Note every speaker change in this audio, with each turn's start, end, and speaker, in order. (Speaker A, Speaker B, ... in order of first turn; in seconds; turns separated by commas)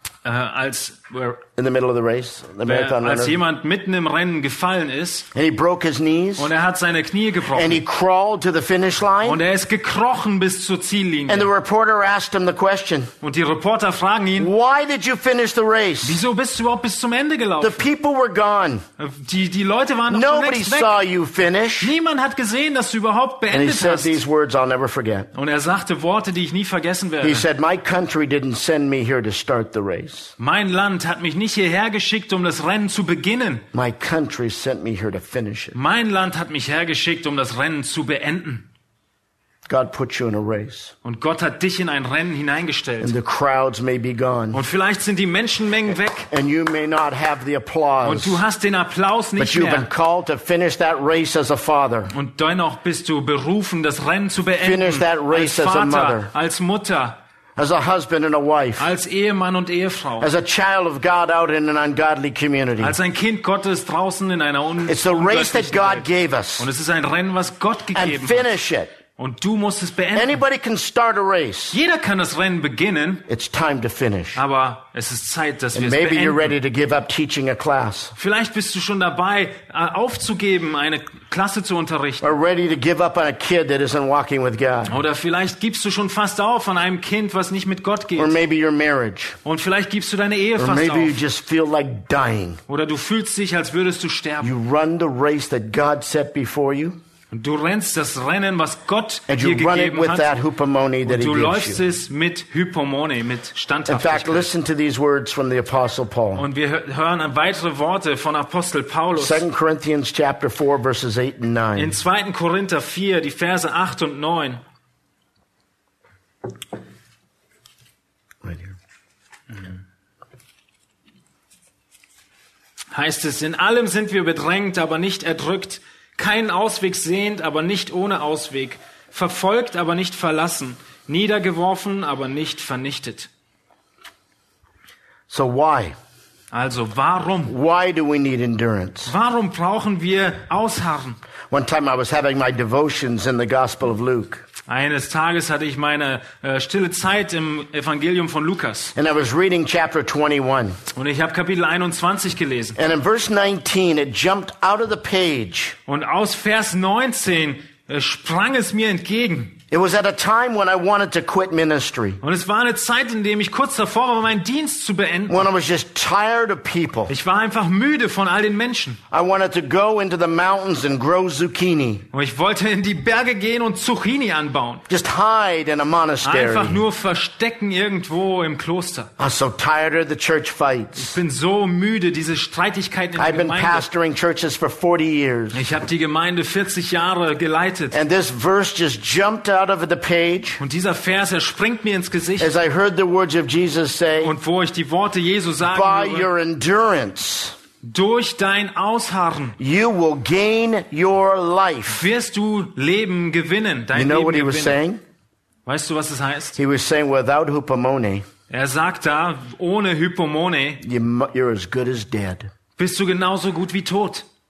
Speaker A: 0.2-1.4, Speaker B: 1.6-3.4, Speaker A: 2.6-5.3, Speaker B: 5.3-6.5, Speaker A: 6.4-7.8, Speaker B: 7.5-9.4, Speaker A: 9.2-11.5, Speaker B: 11.3-13.1, Speaker A: 13.2-14.5, Speaker B: 14.4-16.2, Speaker A: 16.0-17.9, Speaker B: 17.6-18.8, Speaker A: 19.0-21.0, Speaker B: 20.1-21.9, Speaker A: 21.8-24.2, Speaker B: 23.5-25.3, Speaker A: 25.3-27.4, Speaker B: 27.2-30.3, Speaker A: 30.4-33.6, Speaker B: 33.7-35.8, Speaker A: 35.7-38.6, Speaker B: 39.7-40.9, Speaker A: 41.0-43.1, Speaker B: 43.0-44.6, Speaker A: 44.5-46.3, Speaker B: 46.3-48.4, Speaker A: 48.0-49.9, Speaker B: 49.4-52.1, Speaker A: 52.1-57.2, Speaker B: 54.6-56.3, Speaker B: 57.5-58.9, Speaker A: 58.8-60.3, Speaker B: 60.2-63.0, Speaker A: 62.8-66.1, Speaker B: 64.8-66.7, Speaker A: 66.6-68.5, Speaker B: 67.9-68.9, Speaker A: 69.2-70.4, Speaker B: 70.1-71.8, Speaker A: 71.7-73.2, Speaker B: 73.3-74.4, Speaker A: 74.3-76.5, Speaker B: 75.7-78.1, Speaker A: 78.2-82.3, Speaker B: 82.2-84.9, Speaker A: 84.9-88.3, Speaker B: 88.2-89.4, Speaker A: 89.4-91.2, Speaker B: 90.6-92.6, Speaker A: 92.7-94.5, Speaker B: 94.4-97.0, Speaker A: 97.3-100.3, Speaker B: 99.3-101.8, Speaker A: 101.0-104.5, Speaker B: 103.9-106.4, Speaker A: 106.3-109.4, Speaker B: 109.2-112.0, Speaker A: 111.8-114.6, Speaker B: 118.4-118.8, Speaker A: 122.9-133.3, Speaker B: 135.3-135.9, Speaker A: 136.5-137.5, Speaker B: 137.5-139.1, Speaker A: 139.1-141.2, Speaker B: 141.5-144.4, Speaker A: 144.7-148.9, Speaker B: 148.9-150.8, Speaker A: 150.9-152.8, Speaker B: 152.8-155.8, Speaker A: 155.9-159.6, Speaker B: 159.7-162.2, Speaker A: 162.2-165.4, Speaker B: 165.3-167.1, Speaker A: 167.1-169.0, Speaker B: 169.1-172.1, Speaker A: 172.1-174.8, Speaker B: 174.9-176.8, Speaker A: 176.2-179.1, Speaker B: 179.2-181.2, Speaker A: 180.9-183.8, Speaker B: 183.2-185.6, Speaker A: 185.5-188.0, Speaker B: 187.9-190.6, Speaker A: 190.6-192.5, Speaker B: 192.4-194.3, Speaker A: 194.2-196.3, Speaker B: 195.6-197.6, Speaker A: 197.8-199.6, Speaker B: 199.6-202.1, Speaker A: 201.9-204.8, Speaker B: 203.9-205.0, Speaker A: 205.7-206.6, Speaker B: 206.6-208.2, Speaker A: 208.5-210.8, Speaker B: 210.8-212.5, Speaker A: 212.8-214.2